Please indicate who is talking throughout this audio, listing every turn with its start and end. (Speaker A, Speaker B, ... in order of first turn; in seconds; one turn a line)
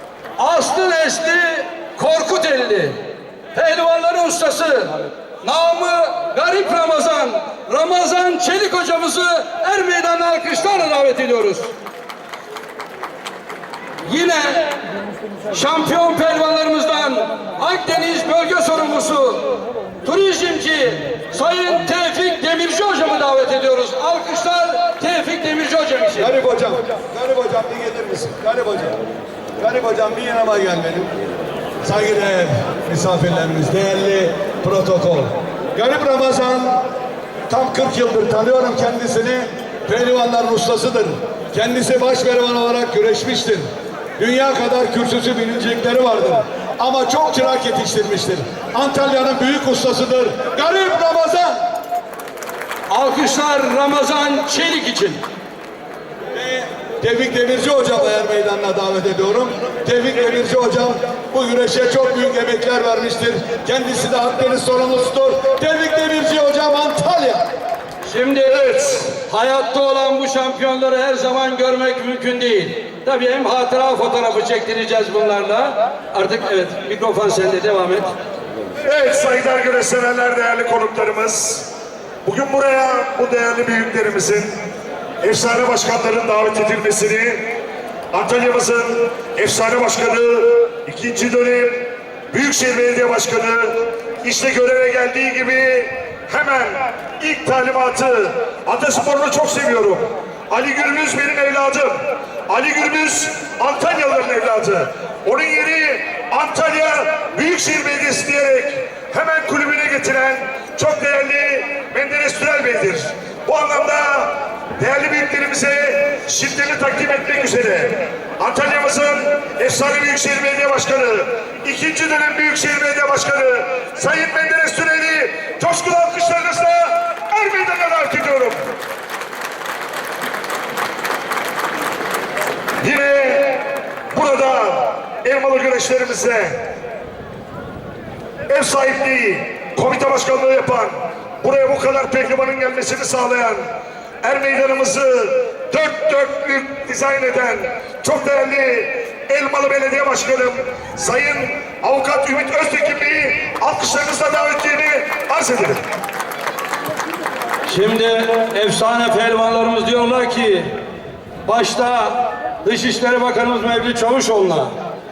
Speaker A: 0.4-3.0
Speaker A: 3.5-11.7
Speaker A: 14.1-14.8
Speaker A: 15.5-26.3
Speaker B: 26.2-29.0
Speaker B: 29.6-31.1
Speaker B: 31.8-36.8
Speaker B: 37.5-43.7
Speaker B: 44.2-51.6
Speaker A: 52.9-55.2
Speaker B: 56.3-67.4
Speaker A: 68.0-78.1
Speaker C: 68.6-69.1
Speaker C: 78.8-81.7
Speaker C: 82.2-84.7
Speaker C: 85.2-87.6
Speaker C: 88.1-128.6
Speaker C: 132.8-136.7
Speaker C: 138.5-143.7
Speaker C: 144.2-155.8
Speaker A: 157.7-160.7
Speaker A: 161.5-164.7